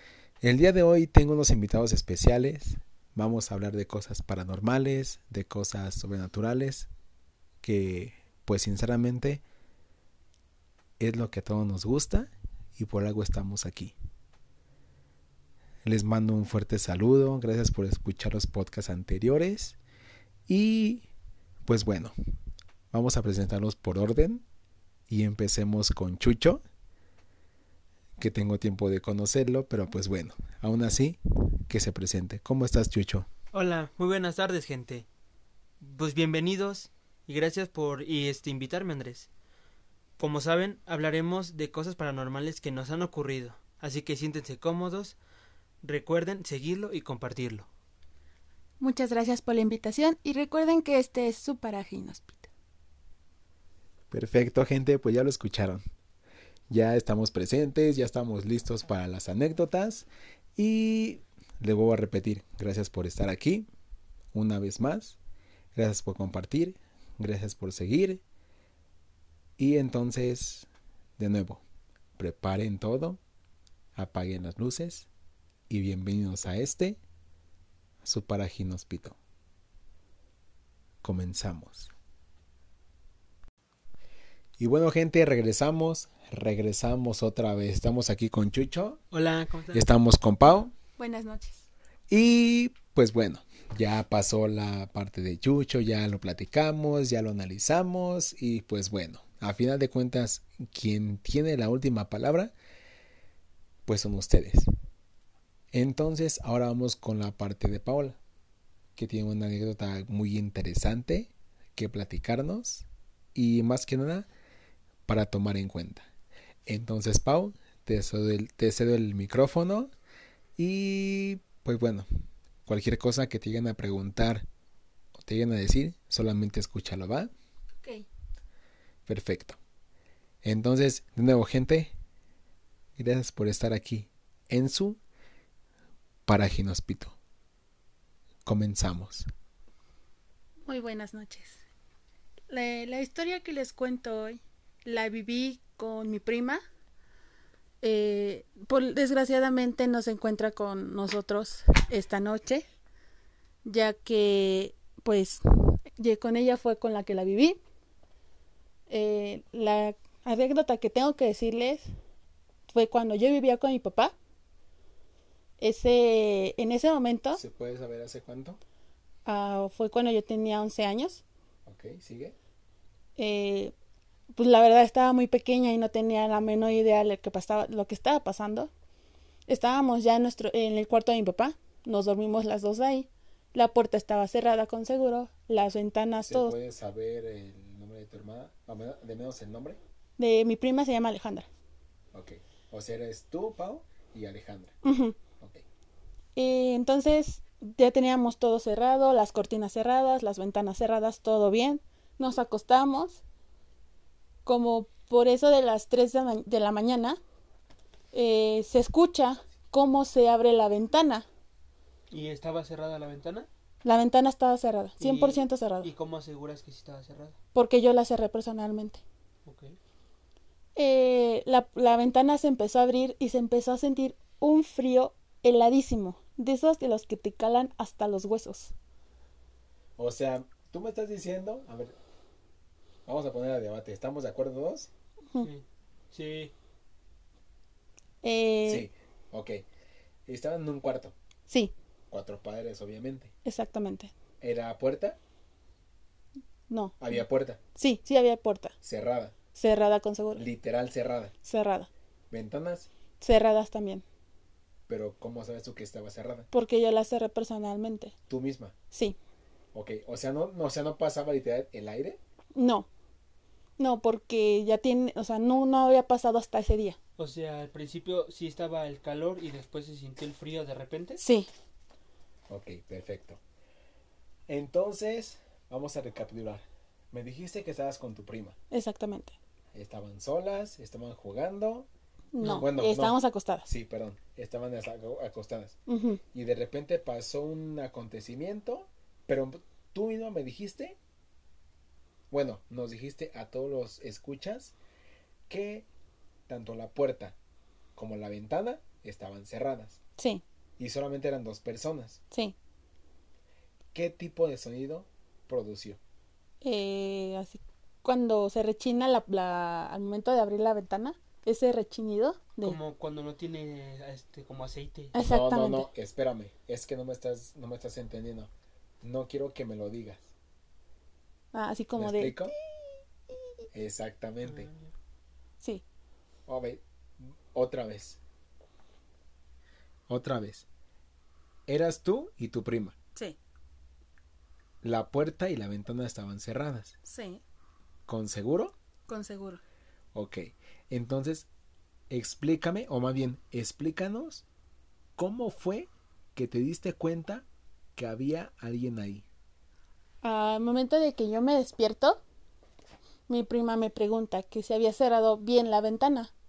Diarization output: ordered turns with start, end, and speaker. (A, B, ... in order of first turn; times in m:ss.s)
0:00.4-0:06.9 A
0:07.6-0:09.4 A
0:11.0-0:13.9 A
0:15.9-0:19.8 A
0:20.5-0:21.1 A
0:21.7-0:22.1 A
0:22.9-0:24.4 A
0:25.1-0:26.6 A
0:28.2-0:33.3 A
0:33.5-0:35.1 B
0:35.8-0:39.3 B
0:40.2-0:45.2 B
0:45.8-0:47.7 B
0:48.8-0:52.5 C
0:54.1-0:55.8 A
0:56.7-1:03.7 A
1:04.3-1:05.2 A
1:05.8-1:08.2 A
1:09.6-1:11.6 A
1:12.2-1:13.2 A
1:14.0-1:15.1 A
1:15.7-1:17.0 A
1:18.0-1:19.2 A
1:21.0-1:21.9 A
1:24.6-1:29.0 A
1:29.1-1:29.8 B
1:29.7-1:30.7 A
1:31.0-1:31.7 C
1:32.1-1:42.5 A
1:43.9-1:44.7 A
1:45.7-1:48.2 A
1:49.0-1:54.3 A
1:55.1-1:56.0 A
1:56.7-1:59.9 A
2:00.6-2:02.1 A
2:02.7-2:04.5 A
2:05.2-2:07.3 A
2:07.8-2:08.1 C
2:09.1-2:09.6 A
2:10.4-2:11.9 A
2:13.0-2:15.0 A
2:16.3-2:17.2 A
2:18.4-2:19.2 A
2:20.6-2:21.6 C
2:22.5-2:26.6 C
2:27.8-2:32.6 C
2:33.6-2:35.4 C
2:36.0-2:37.6 C
2:38.9-2:41.9 C
2:42.7-2:44.2 C
2:45.6-2:47.4 C
2:47.3-2:48.6 A
2:49.3-2:51.2 C
2:51.7-2:52.4 A
2:53.2-2:53.7 C
2:54.3-2:58.7 C
2:59.5-3:06.6 C
3:06.2-3:09.8 A
3:10.2-3:11.5 C
3:12.1-3:14.7 A
3:14.8-3:15.2 C
3:16.4-3:23.2 C
3:24.5-3:27.2 C
3:28.1-3:31.3 C
3:32.1-3:33.5 B
3:33.8-3:35.9 C
3:35.0-3:37.4 B
3:37.6-3:39.0 C
3:39.5-3:39.8 B
3:40.8-3:48.7 C
3:50.0-3:52.0 A
3:53.1-3:54.9 A
3:55.4-3:56.5 B
3:58.2-3:58.9 C
3:58.7-3:59.6 A
4:00.3-4:01.2 A
4:01.5-4:01.7 C
4:02.1-4:03.3 A
4:03.4-4:04.1 C
4:04.4-4:05.2 A
4:06.7-4:07.0 C
4:07.0-4:07.6 A
4:07.8-4:08.8 C
4:08.8-4:09.3 A
4:09.6-4:10.4 C
4:10.4-4:11.3 A
4:11.4-4:11.9 C
4:12.3-4:12.9 A
4:13.2-4:14.0 C
4:14.9-4:16.5 A
4:16.5-4:18.1 C
4:18.3-4:18.7 A
4:18.9-4:19.2 C
4:19.7-4:22.2 A
4:22.6-4:22.9 C
4:23.8-4:27.0 C
4:27.2-4:31.2 B
4:31.2-4:31.5 C
4:32.5-4:33.4 A
4:34.5-4:38.6 A
4:38.7-4:39.4 C
4:39.7-4:41.9 A
4:42.3-4:43.7 C
4:42.4-4:45.8 A
4:45.9-4:46.2 C
4:46.3-4:51.0 A
4:52.3-4:54.8 A
4:55.5-4:55.9 A
4:56.5-4:57.4 A
4:58.0-5:00.0 A
5:00.2-5:00.4 C
5:00.8-5:02.2 A
5:02.3-5:02.6 C
5:03.9-5:06.0 A
5:06.6-5:12.8 C
5:12.6-5:15.2 B
5:15.1-5:15.9 C
5:15.2-5:18.5 A
5:19.0-5:20.3 A
5:21.5-5:22.5 C
5:22.0-5:22.5 A
5:23.7-5:24.7 A
5:24.4-5:24.9 B
5:26.5-5:28.2 A
5:30.1-5:30.7 A
5:31.7-5:33.0 A
5:34.8-5:37.0 A
5:37.0-5:37.4 C
5:38.1-5:38.8 A
5:39.1-5:39.6 C
5:40.1-5:41.5 A
5:42.1-5:44.4 A
5:45.2-5:47.4 A
5:48.0-5:49.3 A
5:50.2-5:52.2 C
5:53.3-5:56.3 C